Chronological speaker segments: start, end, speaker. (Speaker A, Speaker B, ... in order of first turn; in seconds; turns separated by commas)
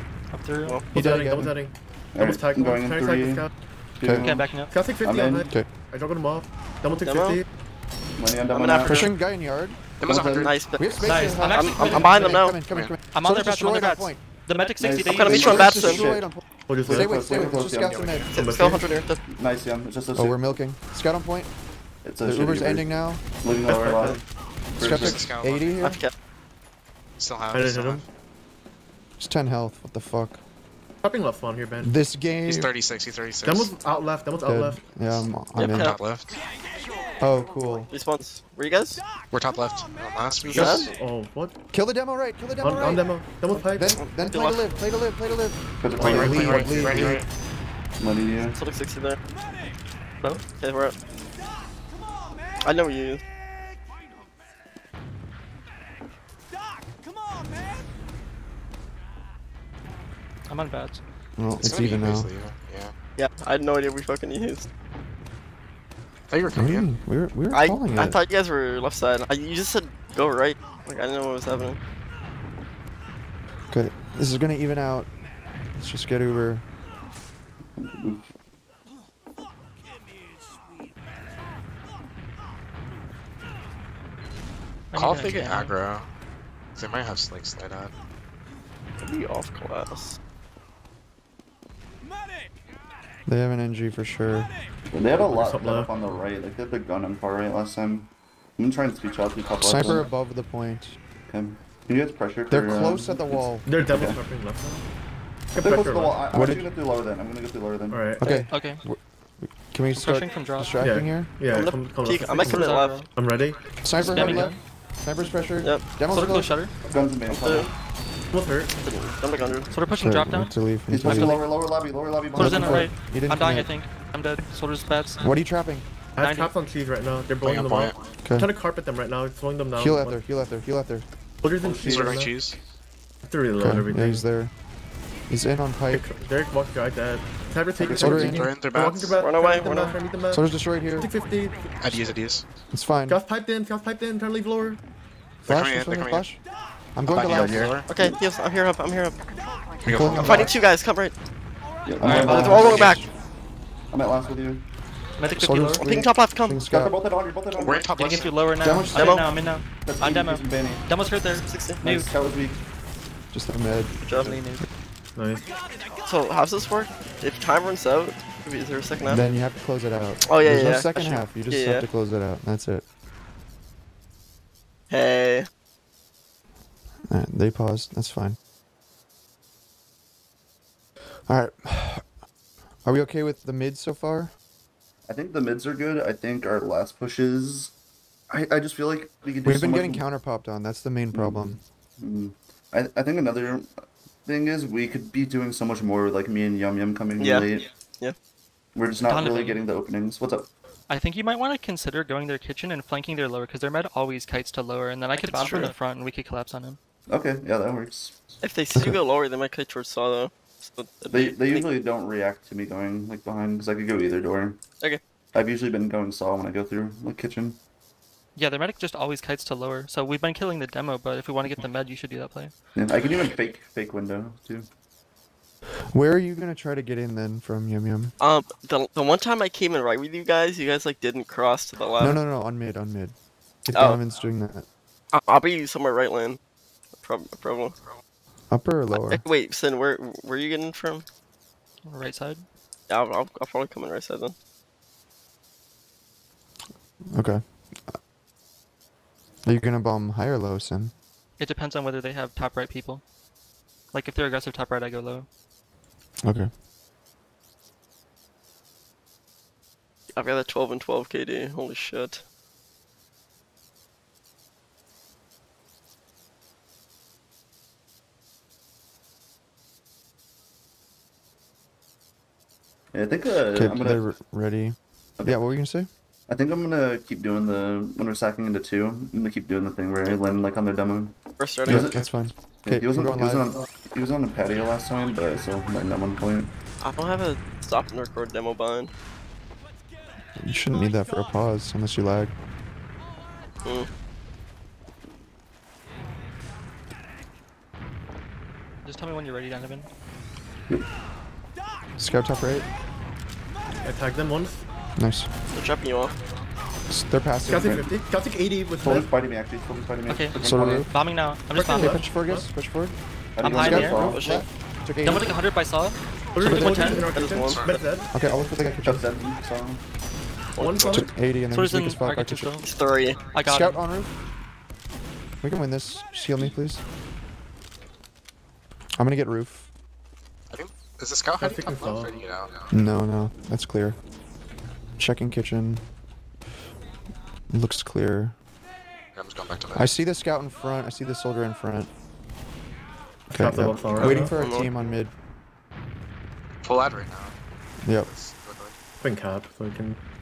Speaker A: 0.3-0.8, Speaker B: 0.9-3.5, Speaker C: 0.9-1.5, Speaker D: 2.1-3.5, Speaker D: 4.0-4.5, Speaker C: 4.0-4.3, Speaker A: 4.1-4.7, Speaker B: 4.7-7.5, Speaker D: 5.0-5.5, Speaker E: 7.0-7.4, Speaker D: 8.2-9.1, Speaker E: 8.5-9.1, Speaker C: 8.8-9.8, Speaker F: 10.0-10.6, Speaker D: 10.0-10.6, Speaker E: 10.4-12.6, Speaker C: 10.8-14.2, Speaker A: 11.0-12.4, Speaker F: 12.6-12.9, Speaker A: 13.1-15.5, Speaker D: 14.8-16.3, Speaker E: 15.0-16.1, Speaker C: 15.3-18.3, Speaker B: 16.7-17.3, Speaker D: 16.8-18.2, Speaker F: 17.8-18.5, Speaker E: 18.3-19.2, Speaker B: 18.4-18.8, Speaker D: 19.2-20.4, Speaker C: 20.1-21.5, Speaker D: 22.0-22.9, Speaker C: 22.2-23.2, Speaker D: 23.4-25.3, Speaker B: 23.7-24.2, Speaker C: 24.8-26.0, Speaker F: 24.8-25.9, Speaker E: 25.8-26.1, Speaker F: 27.2-28.1, Speaker B: 27.5-28.0, Speaker C: 29.2-30.4, Speaker B: 31.0-32.0, Speaker C: 31.8-32.7, Speaker F: 32.5-33.8, Speaker B: 33.5-34.9, Speaker C: 34.5-35.9, Speaker F: 35.0-36.4, Speaker E: 35.6-36.0, Speaker C: 37.2-37.9, Speaker E: 37.9-39.0, Speaker F: 39.3-40.9, Speaker E: 40.5-40.9, Speaker B: 40.6-41.5, Speaker C: 41.7-43.1, Speaker B: 42.6-44.0, Speaker E: 43.5-44.7, Speaker C: 43.7-47.2, Speaker D: 45.8-46.7, Speaker F: 46.0-47.3, Speaker B: 46.0-47.1, Speaker D: 48.0-48.6, Speaker E: 48.4-49.2, Speaker E: 50.5-51.0, Speaker E: 52.6-53.2, Speaker A: 60.5-61.0, Speaker C: 61.4-62.3, Speaker F: 61.6-62.9, Speaker E: 63.2-64.7, Speaker F: 66.3-66.9, Speaker C: 66.5-68.2, Speaker E: 67.5-71.8, Speaker C: 73.7-75.1, Speaker C: 75.8-76.6, Speaker D: 77.8-78.2, Speaker A: 84.9-85.7, Speaker F: 84.9-86.1, Speaker F: 86.8-87.9, Speaker E: 89.0-90.2, Speaker C: 93.3-94.5, Speaker D: 94.9-100.1, Speaker B: 95.2-95.9, Speaker C: 99.6-101.0, Speaker D: 101.3-104.2, Speaker C: 102.5-103.7, Speaker B: 103.6-104.8, Speaker B: 105.5-106.2, Speaker D: 105.6-108.0, Speaker C: 106.3-106.7, Speaker B: 107.9-108.3, Speaker C: 108.2-111.3, Speaker A: 108.2-108.8, Speaker A: 110.0-110.7, Speaker B: 110.8-113.6, Speaker E: 111.5-113.1, Speaker A: 112.3-113.1, Speaker C: 113.8-116.5, Speaker A: 114.0-114.6, Speaker A: 116.0-116.7, Speaker D: 116.8-117.7, Speaker E: 117.3-117.7, Speaker B: 118.3-118.7, Speaker E: 118.8-119.7, Speaker A: 119.7-121.4, Speaker C: 119.9-121.4, Speaker D: 120.9-122.9, Speaker C: 122.3-123.7, Speaker A: 122.3-125.3, Speaker C: 125.2-125.9, Speaker B: 126.2-130.2, Speaker A: 126.2-126.5, Speaker F: 127.4-128.0, Speaker C: 128.2-128.5, Speaker C: 129.8-131.1, Speaker B: 131.4-132.3, Speaker D: 131.6-132.2, Speaker F: 131.8-132.6, Speaker B: 133.2-134.2, Speaker C: 133.6-134.5, Speaker C: 135.3-136.1, Speaker B: 135.9-142.0, Speaker C: 137.8-138.5, Speaker F: 138.0-139.2, Speaker E: 139.2-140.0, Speaker C: 140.3-141.1, Speaker F: 141.8-142.5, Speaker C: 142.7-143.2, Speaker B: 143.1-144.8, Speaker C: 145.4-146.4, Speaker F: 145.5-146.2, Speaker C: 146.9-147.8, Speaker F: 147.1-147.9, Speaker B: 147.3-147.6, Speaker E: 147.9-149.2, Speaker F: 149.8-150.5, Speaker C: 149.8-150.5, Speaker E: 150.1-151.2, Speaker D: 151.8-152.9, Speaker C: 152.0-153.1, Speaker A: 152.0-152.6, Speaker E: 152.1-153.0, Speaker D: 153.9-154.7, Speaker A: 155.2-155.9, Speaker C: 155.4-156.9, Speaker E: 155.8-156.6, Speaker D: 156.7-157.9, Speaker F: 157.6-158.4, Speaker A: 158.0-162.1, Speaker C: 158.6-159.2, Speaker E: 158.9-159.3, Speaker D: 159.9-160.8, Speaker E: 161.3-161.8, Speaker D: 161.8-162.6, Speaker C: 163.3-164.0, Speaker E: 164.0-164.4, Speaker A: 164.1-164.7, Speaker B: 165.2-165.5, Speaker E: 166.1-169.2, Speaker C: 169.1-172.8, Speaker E: 170.2-171.9, Speaker E: 174.9-175.5, Speaker C: 177.1-178.4, Speaker C: 181.3-182.1, Speaker C: 182.8-184.3, Speaker D: 185.1-187.7, Speaker D: 188.3-190.1, Speaker C: 189.4-191.6, Speaker D: 191.1-197.7, Speaker E: 197.2-198.2, Speaker D: 198.8-200.5, Speaker A: 199.1-199.6, Speaker A: 200.9-206.8, Speaker E: 205.2-205.7, Speaker D: 207.1-208.2, Speaker E: 208.4-211.7, Speaker D: 211.1-214.6, Speaker D: 215.3-217.6, Speaker A: 218.4-222.5, Speaker D: 222.8-224.7, Speaker C: 225.9-228.1, Speaker E: 228.2-232.2, Speaker C: 232.0-233.2, Speaker C: 233.7-234.7, Speaker E: 233.7-234.0, Speaker E: 235.1-236.4, Speaker E: 237.0-237.8, Speaker C: 238.5-239.2, Speaker E: 238.9-241.1, Speaker A: 241.8-242.4, Speaker E: 242.9-244.3, Speaker C: 247.1-248.0, Speaker C: 249.4-250.9, Speaker A: 251.4-253.0, Speaker A: 253.9-255.3, Speaker C: 256.2-256.5, Speaker E: 260.1-262.2, Speaker D: 272.9-274.0, Speaker C: 273.5-275.9, Speaker D: 276.3-282.0, Speaker E: 281.4-281.9, Speaker C: 281.7-283.5, Speaker D: 282.6-286.5, Speaker E: 286.8-288.9, Speaker C: 290.4-292.3, Speaker E: 293.6-293.9, Speaker A: 298.8-299.9, Speaker C: 302.0-302.7, Speaker B: 303.8-304.7, Speaker C: 305.0-305.3, Speaker E: 305.5-306.2, Speaker C: 306.9-307.9, Speaker B: 307.4-309.1, Speaker D: 308.8-310.9, Speaker A: 310.1-312.0, Speaker C: 310.4-310.9, Speaker B: 311.5-312.5, Speaker C: 311.8-313.0, Speaker D: 313.4-314.2, Speaker A: 313.4-314.0, Speaker C: 313.5-315.4, Speaker E: 313.7-314.5, Speaker A: 315.0-317.1, Speaker B: 316.4-318.1, Speaker C: 316.4-317.1, Speaker E: 316.9-317.7, Speaker F: 317.5-317.8, Speaker C: 318.1-319.0, Speaker D: 318.8-319.8, Speaker E: 320.6-321.1, Speaker B: 320.6-321.1, Speaker C: 320.9-322.6, Speaker A: 321.5-322.7, Speaker E: 322.6-323.3, Speaker A: 323.3-323.8, Speaker C: 323.4-324.1, Speaker C: 325.4-326.8, Speaker C: 329.0-329.7, Speaker F: 330.5-332.7, Speaker B: 331.4-332.1, Speaker C: 332.7-334.0, Speaker C: 335.0-335.8, Speaker C: 337.5-338.4, Speaker F: 339.1-340.0, Speaker C: 339.7-341.9, Speaker B: 343.3-344.4, Speaker C: 343.4-345.1, Speaker E: 344.2-344.7, Speaker F: 346.6-347.4, Speaker C: 347.8-348.1, Speaker F: 347.9-348.7, Speaker B: 349.0-350.0